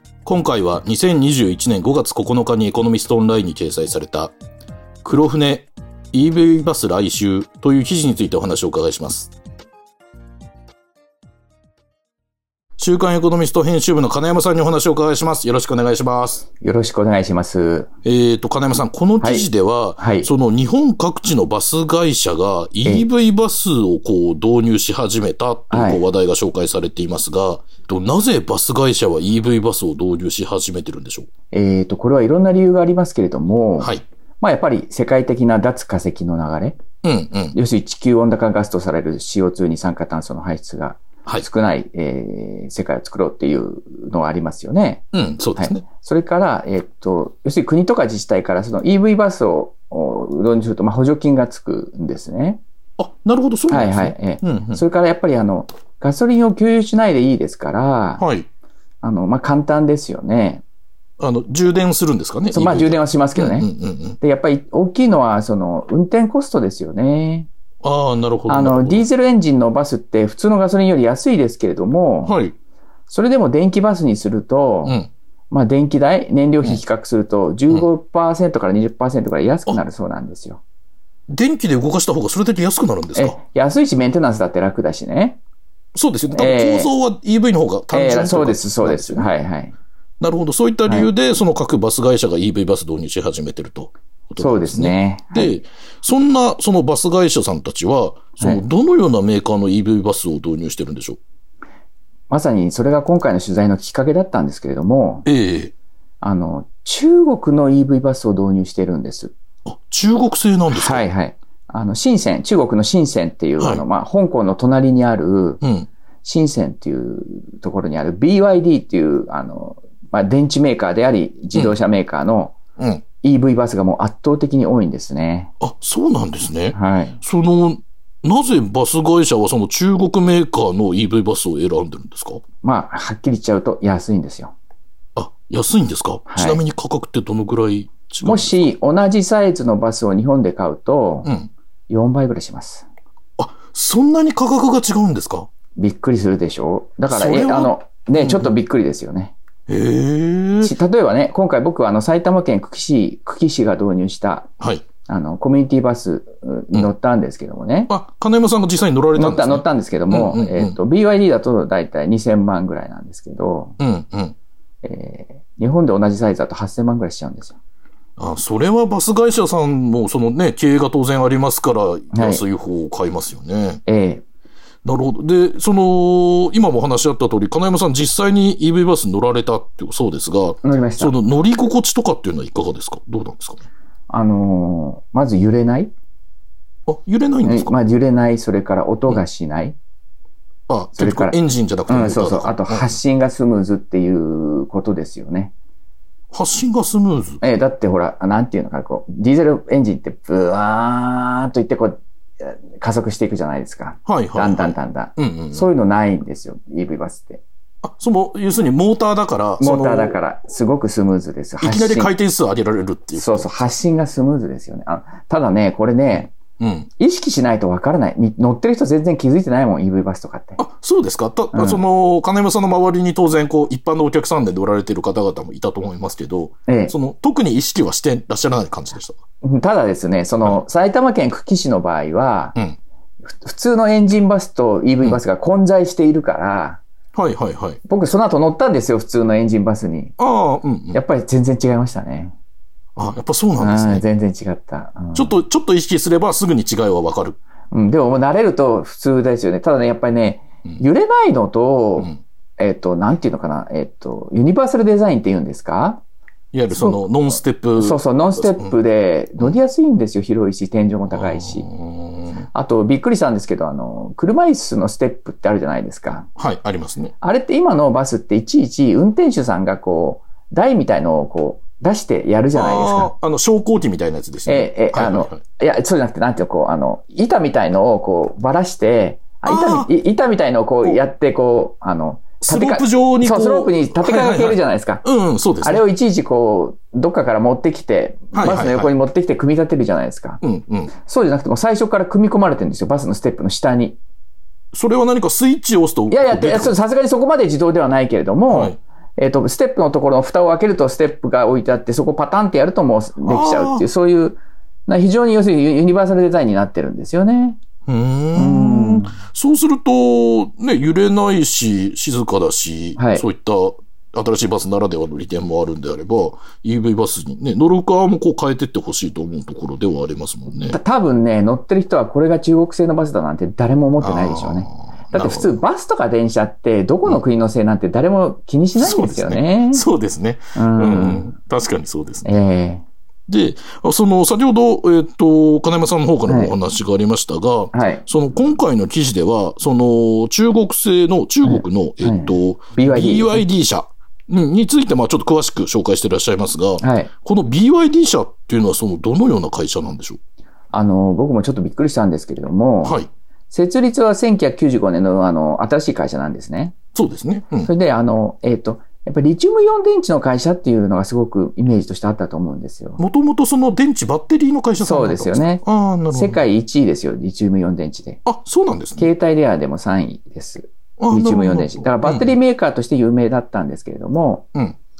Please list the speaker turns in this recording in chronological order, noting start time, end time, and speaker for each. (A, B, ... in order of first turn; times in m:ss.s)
0:00.2-0:04.3 A
0:05.0-0:09.3 A
0:12.8-0:16.4 A
0:16.6-0:17.9 B
0:18.0-0:31.3 A
0:19.2-0:19.5 B
0:20.0-0:20.3 B
0:25.7-0:26.0 B
0:31.5-0:36.8 B
0:37.0-0:37.6 A
0:37.5-0:45.0 B
0:45.1-0:45.8 A
0:45.6-0:52.6 B
0:53.0-0:54.8 A
0:53.7-0:58.2 B
0:58.2-0:58.4 A
0:59.0-1:00.6 B
1:01.2-1:04.2 A
1:02.5-1:03.7 B
1:04.2-1:07.5 B
1:07.8-1:09.0 A
1:08.5-1:12.4 B
1:12.2-1:12.5 A
1:13.1-1:15.0 B
1:15.5-1:20.6 B
1:21.3-1:23.4 A
1:23.2-1:25.4 B
1:25.9-1:29.3 A
1:26.3-1:26.9 B
1:27.9-1:29.7 B
1:30.2-1:41.2 A
1:34.4-1:35.6 B
1:42.3-1:45.2 B
1:45.2-1:45.7 A
1:46.2-1:49.3 B
1:49.6-1:51.1 A
1:50.7-1:55.6 B
1:53.6-1:53.8 A
1:55.6-1:55.9 A
1:56.2-2:02.6 B
2:02.8-2:03.0 A
2:03.2-2:05.5 B
2:05.6-2:12.4 A
2:06.7-2:07.2 B
2:12.6-2:14.5 B
2:15.2-2:18.7 A
2:16.3-2:16.6 B
2:18.2-2:21.3 B
2:21.2-2:21.5 A
2:21.9-2:22.9 B
2:23.4-2:25.5 A
2:25.8-2:29.3 B
2:27.1-2:28.5 A
2:29.7-2:30.7 A
2:30.6-2:34.5 B
2:34.6-2:34.8 A
2:35.0-2:37.9 B
2:37.9-2:40.8 A
2:39.1-2:43.8 B
2:43.8-2:44.3 A
2:44.8-2:47.6 B
2:48.2-2:53.8 A
2:52.1-2:52.4 B
2:53.8-2:54.2 B
2:54.8-3:03.6 A
3:00.6-3:01.1 B
3:04.1-3:05.9 B
3:06.9-3:07.8 A
3:07.4-3:09.8 B
3:10.7-3:13.0 A
3:10.9-3:11.4 B
3:11.9-3:15.5 B
3:16.3-3:17.4 A
3:17.4-3:27.4 B
3:24.0-3:25.7 A
3:27.8-3:30.2 A
3:29.6-3:32.1 B
3:31.6-3:33.5 A
3:33.1-3:36.3 B
3:36.6-3:36.9 A
3:37.0-3:40.6 B
3:40.6-3:49.2 A
3:41.5-3:41.8 B
3:46.7-3:46.9 B
3:49.4-3:52.6 B
3:53.2-3:56.8 B
3:57.1-3:57.8 A
3:57.9-4:00.1 B
4:00.2-4:01.0 A
4:00.9-4:02.3 B
4:03.0-4:04.0 A
4:03.6-4:05.4 B
4:05.1-4:07.4 A
4:07.7-4:16.0 B
4:16.5-4:18.7 A
4:16.7-4:17.0 B
4:17.8-4:21.7 B
4:21.1-4:22.5 A
4:22.5-4:26.3 B
4:26.4-4:27.1 A
4:27.2-4:33.1 B
4:32.5-4:35.4 A
4:34.4-4:45.0 B
4:39.4-4:39.9 A
4:42.4-4:45.8 A
4:45.6-4:50.4 B
4:48.3-4:48.9 A
4:50.4-4:50.9 A
4:51.0-4:54.0 B
4:54.7-4:56.8 A
4:56.1-5:07.6 B
4:58.5-4:58.8 A
5:03.2-5:03.8 A
5:07.9-5:20.8 A
5:08.3-5:09.2 B
5:13.0-5:13.2 B
5:20.6-5:29.8 B
5:24.0-5:25.6 A
5:28.8-5:32.4 A
5:30.5-5:31.3 B
5:32.2-5:32.8 B
5:33.3-5:50.2 A
5:36.3-5:36.5 B
5:37.7-5:38.0 B
5:41.4-5:43.4 B
5:46.8-5:47.1 B
5:50.7-5:56.7 B
5:56.9-5:57.7 A
5:57.6-6:03.0 B
6:03.0-6:06.4 A
6:04.8-6:08.2 B
6:08.2-6:09.1 A
6:09.0-6:14.4 B
6:11.0-6:12.3 A